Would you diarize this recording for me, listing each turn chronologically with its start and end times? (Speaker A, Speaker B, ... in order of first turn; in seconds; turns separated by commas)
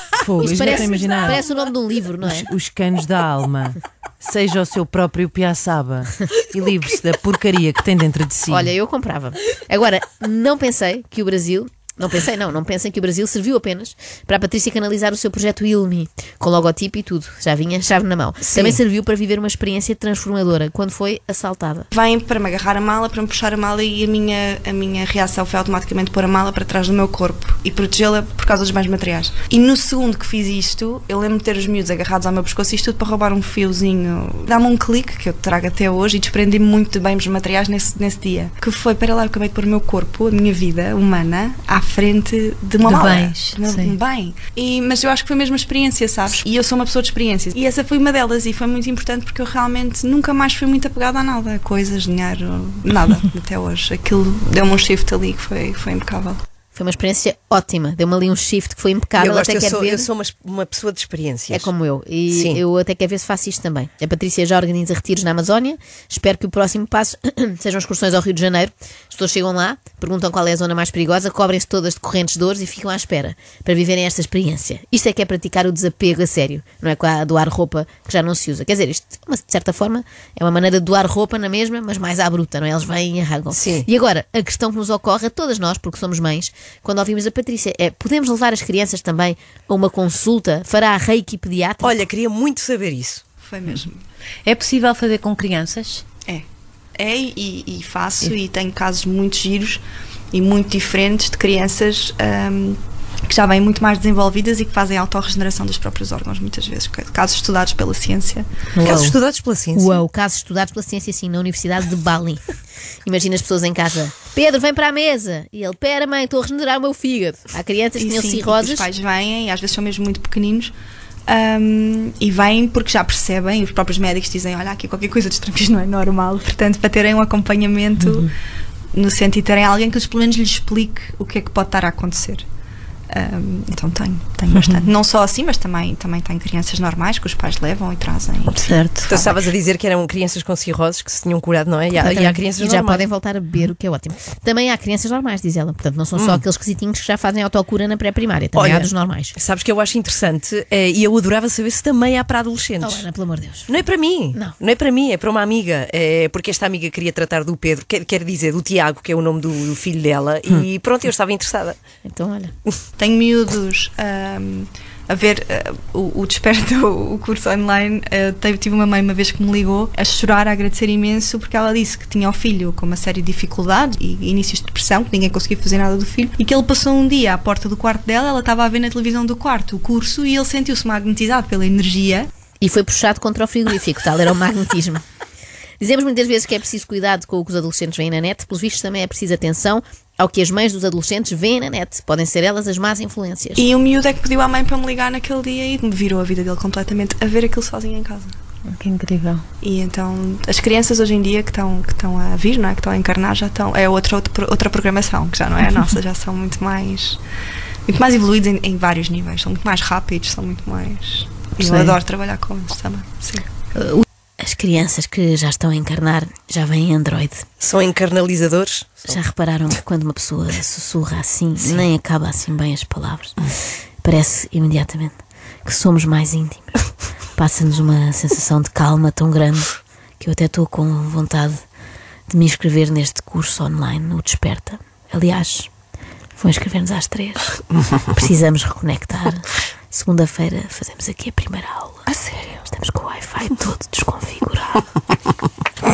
Speaker A: 0.2-1.4, Speaker B: 0.4-2.5, Speaker A: 2.2-8.7, Speaker B: 8.5-21.9, Speaker C: 18.4-18.8, Speaker D: 21.9-56.4, Speaker E: 42.8-44.0, Speaker B: 56.7-60.1, Speaker C: 59.1-61.7, Speaker B: 61.5-92.0, Speaker C: 62.3-62.6, Speaker C: 83.5-83.9, Speaker C: 91.8-93.2, Speaker D: 93.4-94.0, Speaker E: 94.5-96.0, Speaker D: 97.0-99.8, Speaker D: 100.3-109.0, Speaker E: 108.8-109.1, Speaker C: 108.8-110.0, Speaker B: 109.7-112.4, Speaker B: 113.0-118.9, Speaker D: 118.0-120.7, Speaker D: 121.3-128.3, Speaker E: 128.0-128.3, Speaker D: 128.9-132.4, Speaker D: 133.1-138.8, Speaker E: 138.5-139.3, Speaker C: 139.1-143.0, Speaker B: 142.0-149.3, Speaker C: 146.1-146.4, Speaker C: 148.5-153.1, Speaker B: 152.8-153.8, Speaker C: 153.7-161.8, Speaker B: 162.0-162.5, Speaker D: 163.0-182.3, Speaker B: 182.6-185.0, Speaker B: 185.8-193.6, Speaker D: 193.6-198.3, Speaker E: 198.7-199.4, Speaker D: 199.6-207.2, Speaker D: 207.9-213.5, Speaker E: 211.6-212.0, Speaker E: 213.8-214.0, Speaker B: 214.4-217.5, Speaker C: 217.6-219.2, Speaker B: 219.1-223.5, Speaker B: 224.0-226.8, Speaker B: 227.4-231.6, Speaker B: 232.3-235.7, Speaker B: 236.4-244.9